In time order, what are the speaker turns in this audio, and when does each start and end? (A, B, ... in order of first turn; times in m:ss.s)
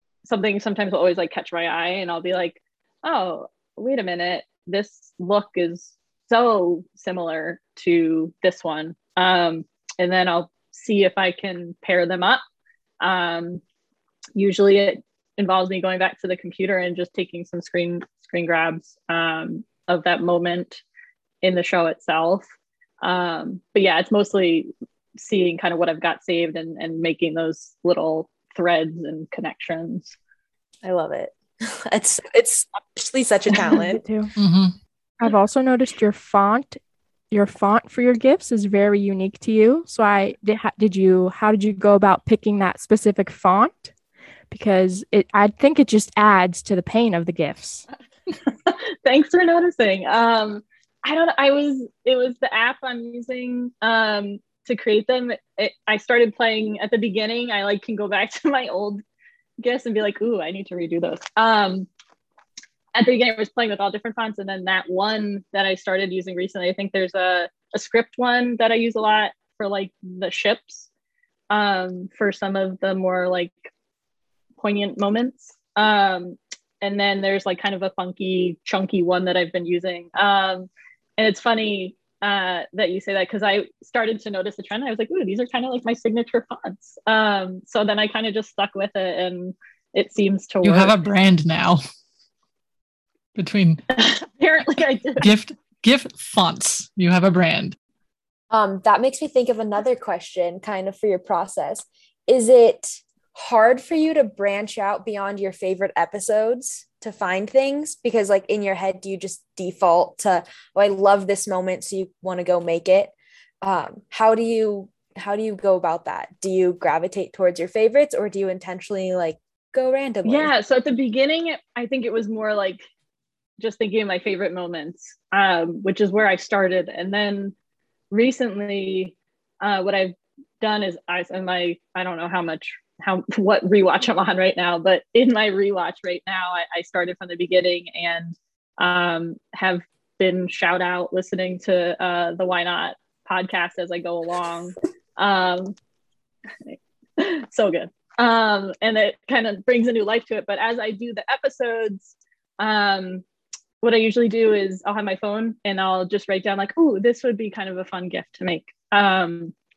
0:00.2-0:12.4 A
0:13.0-0:13.6 A
0:14.4-0:20.8 A
0:21.4-0:22.4 A
0:23.0-0:30.2 A
0:30.8-0:34.0 B
0:33.7-0:34.3 C
0:34.4-0:34.8 D
0:35.2-0:36.8 C
0:37.3-0:43.9 C
0:44.5-0:47.8 C
0:48.5-0:59.0 A
0:59.6-1:01.9 A
1:03.0-1:10.9 A
1:11.5-1:13.5 A
1:14.6-1:30.9 A
1:30.6-1:31.8 D
1:33.4-1:33.8 D
1:33.9-1:35.3 A
1:35.2-1:37.8 D
1:38.5-2:00.5 B
2:00.2-2:02.8 A
2:03.6-2:07.5 A
2:08.1-2:25.8 A
2:26.7-2:33.2 A
2:33.8-2:39.5 A